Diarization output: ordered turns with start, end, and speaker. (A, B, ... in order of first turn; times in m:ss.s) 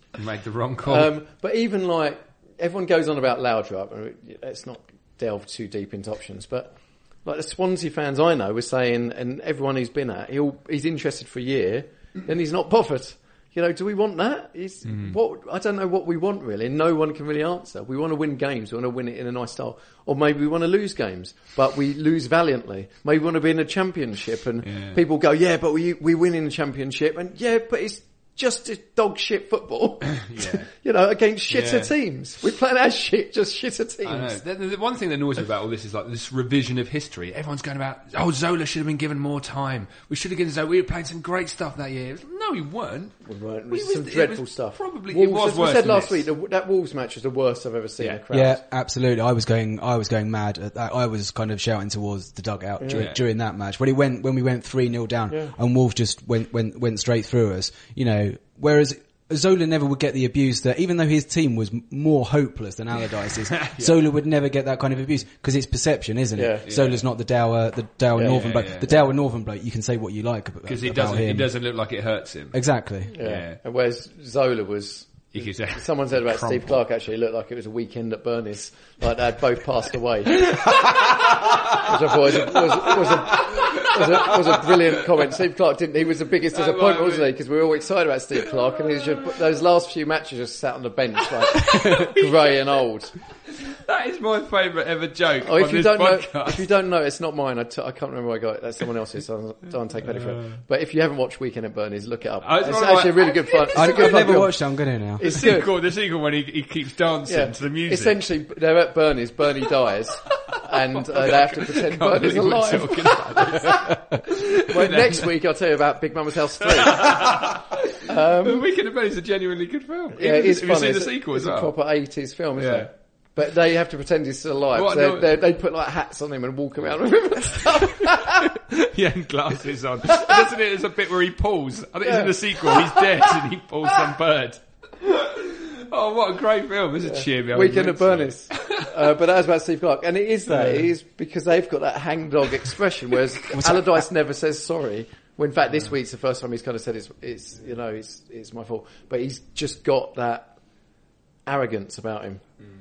0:00.2-0:01.1 A
0:00.9-0:34.4 B
0:14.8-0:15.2 A
0:24.6-0:25.0 A
0:30.1-0:30.7 A
0:31.5-0:31.9 A
0:34.0-0:43.2 A
0:43.2-0:48.6 B
0:43.7-0:46.2 A
0:48.3-1:11.5 C
0:52.8-0:53.1 B
0:52.9-0:53.2 A
1:03.6-1:03.9 A
1:06.4-1:06.6 B
1:06.7-1:07.0 A
1:08.3-1:09.0 A
1:10.7-1:12.6 A
1:12.5-1:13.1 C
1:13.1-1:20.6 B
1:13.2-1:13.6 A
1:15.3-1:16.8 A
1:21.8-1:33.1 B
1:23.0-1:24.8 A
1:26.5-1:27.3 A
1:31.7-1:32.2 A
1:33.5-1:36.7 A
1:35.4-1:44.5 B
1:40.1-1:40.6 A
1:42.4-1:44.4 A
1:43.8-1:45.4 C
1:45.2-1:45.7 B
1:45.2-1:48.2 A
1:47.3-1:53.8 B
1:50.3-1:50.6 A
1:51.2-1:55.2 A
1:54.6-1:57.5 B
1:57.0-1:57.5 A
1:58.1-1:58.7 B
1:58.4-2:01.7 A
2:00.1-2:08.4 B
2:02.6-2:02.9 A
2:04.8-2:05.4 A
2:08.7-2:18.9 A
2:12.0-2:13.3 B
2:17.0-2:30.5 B
2:23.5-2:23.8 C
2:31.5-2:32.4 B